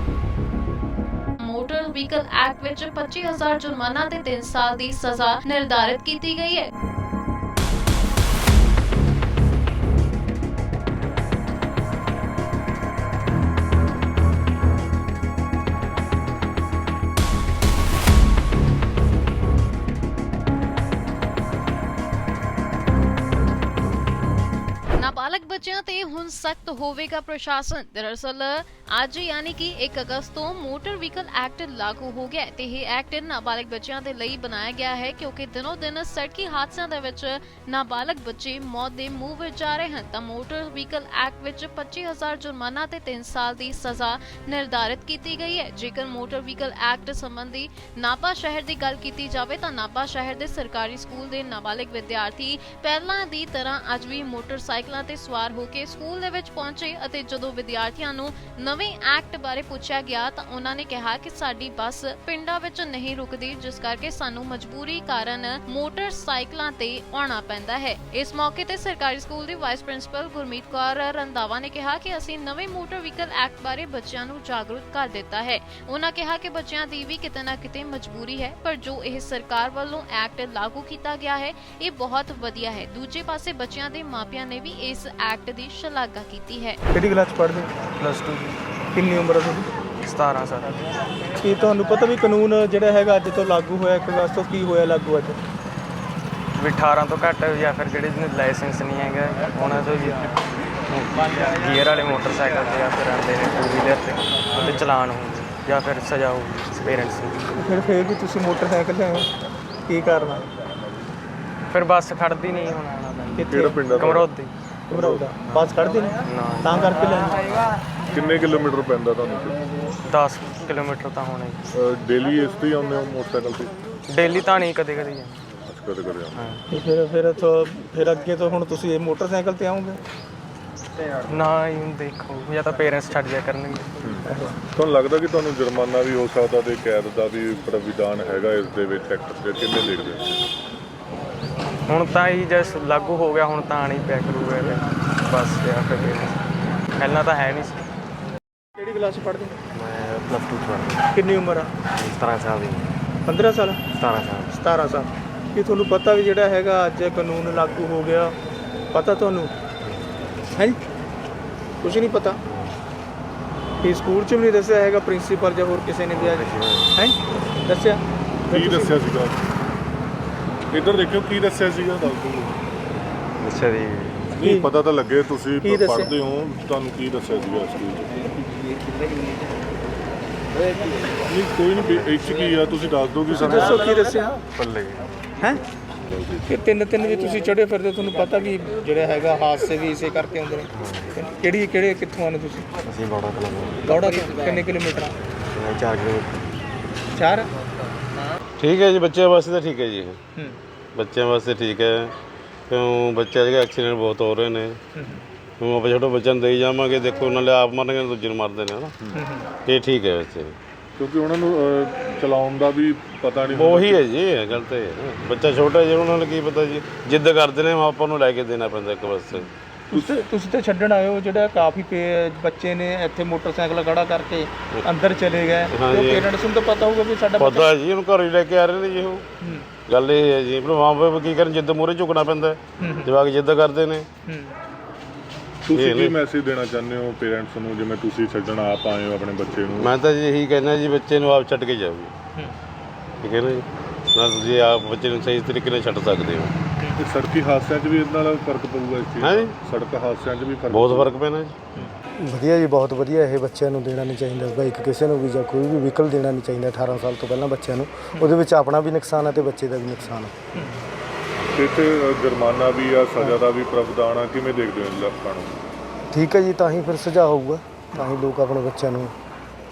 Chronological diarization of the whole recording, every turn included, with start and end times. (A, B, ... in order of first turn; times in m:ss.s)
0:01.4-0:06.7 A
0:25.0-1:26.8 A
1:26.9-1:27.7 B
1:27.9-1:28.6 C
1:28.9-1:29.7 B
1:30.0-1:30.7 C
1:31.4-1:35.4 B
1:36.6-1:40.3 C
1:40.9-1:47.4 C
1:47.6-1:49.3 B
1:49.9-1:50.4 B
1:51.7-1:54.5 C
1:53.4-1:53.8 B
1:53.4-1:54.2 D
1:54.9-1:57.4 B
1:54.9-1:55.2 D
1:55.4-1:57.7 C
1:58.1-1:59.6 D
2:00.0-2:01.6 C
2:01.7-2:03.7 D
2:04.1-2:05.4 C
2:05.7-2:06.5 D
2:06.3-2:06.6 C
2:06.7-2:10.0 B
2:11.3-2:13.9 C
2:14.0-2:20.4 D
2:14.3-2:14.5 B
2:21.9-2:27.9 C
2:28.8-2:29.6 B
2:29.7-2:31.1 E
2:31.1-2:31.7 B
2:31.9-2:33.0 E
2:33.2-2:33.8 B
2:33.9-2:34.5 E
2:34.5-2:38.4 B
2:38.9-2:39.5 B
2:39.8-2:40.4 E
2:40.6-2:40.8 B
2:41.8-2:42.4 B
2:42.5-2:42.8 E
2:43.8-2:46.3 B
2:46.1-2:46.9 E
2:46.9-2:49.0 B
2:48.5-2:49.4 D
2:50.7-2:52.6 D
2:53.4-2:54.2 E
2:54.3-2:58.2 D
2:54.4-2:54.7 B
2:55.6-2:56.1 B
3:01.3-3:04.0 D
3:01.7-3:02.2 E
3:03.3-3:04.4 B
3:04.5-3:05.0 E
3:06.5-3:12.7 B
3:10.7-3:11.1 E
3:12.9-3:14.0 E
3:13.9-3:15.2 B
3:15.5-3:16.6 E
3:17.1-3:17.5 B
3:18.6-3:20.2 F
3:20.9-3:22.1 F
3:22.7-3:24.8 F
3:24.9-3:25.2 B
3:25.6-3:28.9 F
3:29.1-3:29.5 B
3:29.7-3:30.6 F
3:31.0-3:34.0 D
3:33.5-3:39.5 F
3:39.9-3:47.7 B
3:45.7-3:46.3 F
3:47.4-3:49.2 F
3:49.4-3:49.6 B
3:49.9-3:54.1 F
3:52.8-3:53.1 B
3:54.3-3:54.5 B
3:55.6-3:59.9 D
3:55.7-3:56.2 F
3:59.7-4:02.1 F
4:03.2-4:06.5 F
4:07.0-4:11.1 D
4:09.2-4:09.5 F
4:10.7-4:11.5 F
4:12.3-4:20.3 G
4:21.5-4:25.6 D
4:26.1-4:29.1 G